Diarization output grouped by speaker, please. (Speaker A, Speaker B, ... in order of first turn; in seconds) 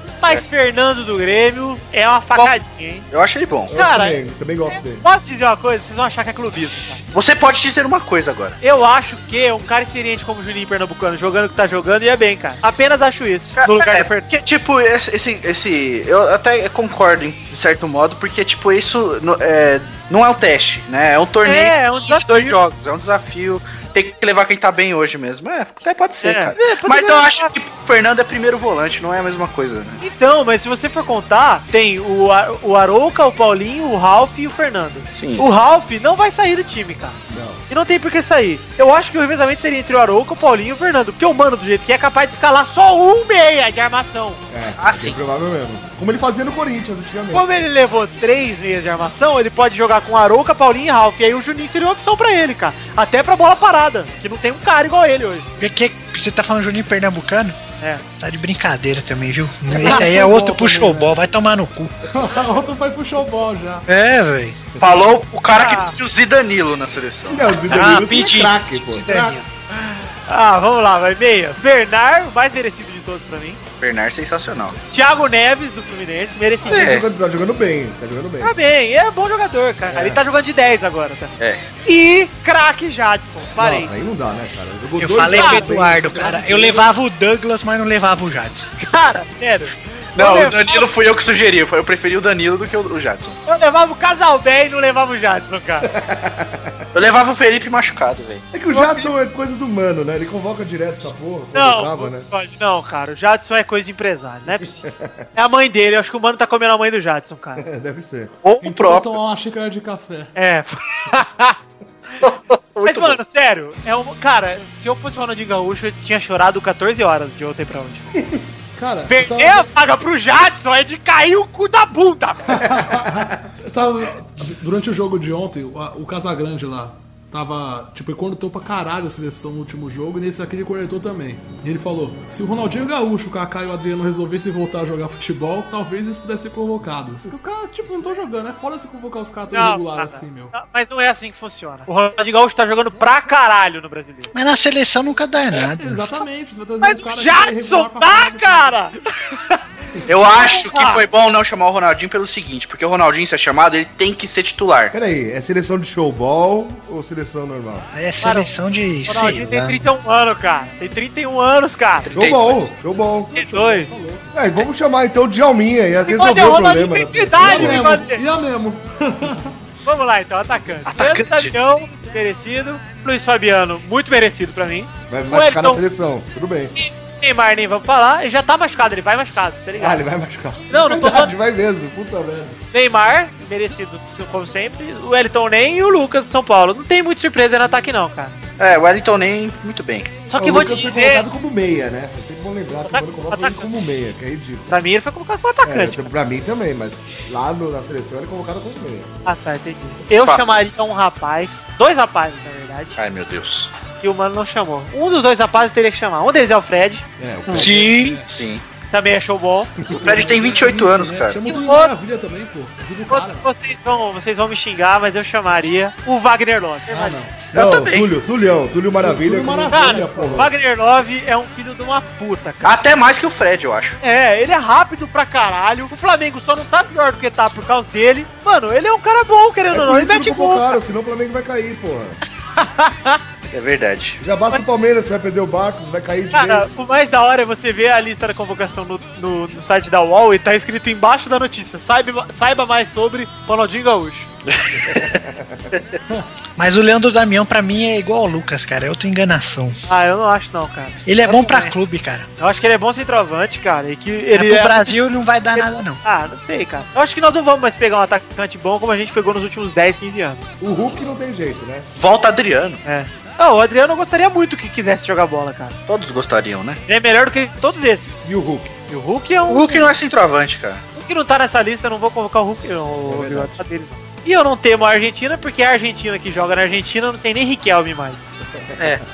Speaker A: 0.2-3.0, 3.7-4.2, 4.9-7.0, 8.6-14.3, 21.4-22.6, 26.2-27.5, 30.0-37.2, 37.7-44.4, 47.3-55.5, 65.5-65.9, 69.7-73.6, 74.9-77.0, 78.4-81.3, 81.8-83.9, 85.3-85.7, 88.8-90.8, 93.5-95.9, 98.7-99.1, 101.5-107.6, 110.3-111.6, 112.8-118.1, 119.1-122.7, 139.5-144.3, 146.8-151.0, 158.2-158.5, 159.1-162.1, 163.3-163.9, 166.1-168.2, 169.8-175.8, 176.8-180.0, 180.7-181.3, 182.7-188.4, 190.3-191.2, 192.8-193.7, 194.7-196.1, 199.2-202.9, 204.0-207.0, 208.9-209.7, 211.4-211.9, 213.1-217.3, 219.7-222.7, 224.0-230.8, 232.6-233.2, 236.3-244.3, 249.8-251.7, 252.4-255.0, 255.5-260.5, 262.8-265.8, 266.9-268.2, 268.9-269.9, 270.9-278.2
Speaker B: 3.1-3.7, 7.1-8.6, 13.6-30.0, 35.1-35.5, 44.8-45.2, 64.8-67.5, 73.8-74.8, 76.7-77.0, 81.4-81.6, 90.2-93.4, 96.9-98.5, 108.4-109.1, 112.2-113.2, 150.1-154.9, 162.0-162.8, 170.8-171.8, 188.6-190.2, 203.0-203.7, 207.5-207.7, 208.3-208.6, 209.9-211.4, 217.5-218.1, 222.6-224.0, 233.5-234.2, 244.5-245.1, 262.0-262.8, 265.9-266.8, 269.5-270.8, 278.8-279.0
Speaker C: 3.7-5.0, 37.3-37.6, 44.5-47.5, 67.3-69.4, 76.6-78.5, 79.9-80.2, 83.6-86.8, 95.8-96.8, 98.5-102.3, 104.8-105.2, 107.6-108.3, 122.7-123.3, 154.9-157.9, 162.1-163.3, 164.3-167.8, 175.1-176.7, 179.8-182.6, 190.4-194.7, 195.6-199.1, 207.2-207.9, 217.5-220.5, 229.7-232.2, 234.2-236.7, 244.8-245.6, 260.6-261.9, 268.2-268.7, 273.0-273.6, 278.5-279.0
Speaker D: 55.6-57.5, 58.2-62.1, 63.9-64.6, 67.7-69.5, 85.0-88.7, 144.3-146.1, 157.9-159.8, 207.5-208.2, 246.6-249.8, 251.1-252.3, 254.3-256.0
Speaker E: 59.7-61.2, 62.1-63.9, 108.6-110.3, 118.7-119.7, 122.5-140.5, 145.5-148.8, 163.3-164.3, 167.4-169.5, 207.7-208.3, 209.9-213.5, 216.9-217.4, 219.0-220.5